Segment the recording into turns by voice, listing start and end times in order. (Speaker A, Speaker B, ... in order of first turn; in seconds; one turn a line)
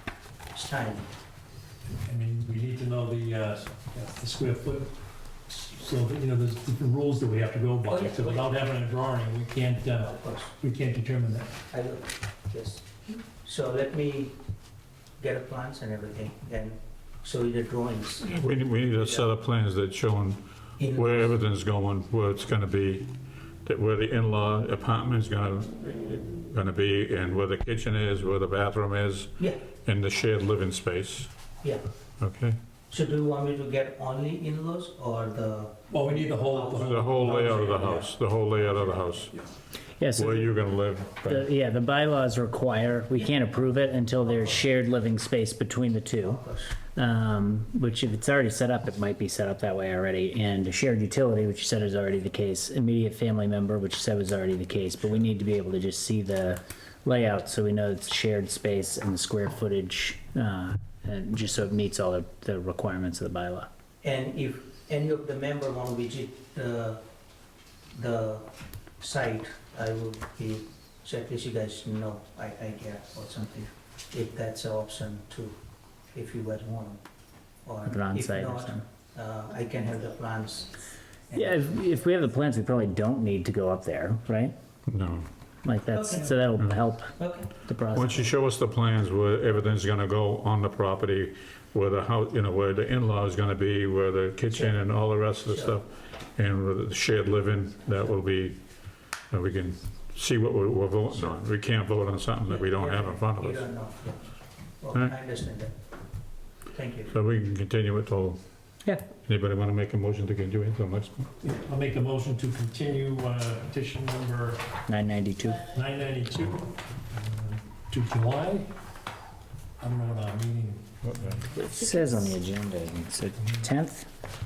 Speaker A: 0.5-1.1
Speaker B: 1.9-11.6
Speaker A: 7.8-8.6
Speaker A: 10.0-10.5
Speaker A: 11.7-14.3
Speaker A: 15.2-19.3
Speaker C: 18.3-31.3
Speaker A: 20.8-21.4
Speaker A: 31.6-31.9
Speaker C: 32.2-32.6
Speaker A: 32.9-37.9
Speaker B: 35.9-38.1
Speaker C: 36.8-39.3
Speaker D: 40.0-40.5
Speaker C: 40.1-41.5
Speaker D: 41.2-46.4
Speaker A: 46.2-46.8
Speaker D: 46.9-63.7
Speaker A: 64.0-67.0
Speaker A: 67.9-68.5
Speaker A: 69.0-75.6
Speaker A: 76.1-77.0
Speaker A: 77.6-81.8
Speaker D: 77.8-78.8
Speaker D: 81.3-84.5
Speaker C: 84.9-85.3
Speaker D: 85.6-88.3
Speaker A: 85.9-86.3
Speaker A: 87.2-87.5
Speaker C: 87.9-103.7
Speaker A: 94.5-94.8
Speaker A: 95.4-95.8
Speaker A: 102.5-105.7
Speaker A: 106.7-107.1
Speaker C: 107.1-111.3
Speaker B: 111.4-114.6
Speaker D: 114.9-115.7
Speaker B: 115.7-118.7
Speaker B: 119.8-121.5
Speaker C: 121.0-121.4
Speaker D: 121.5-124.1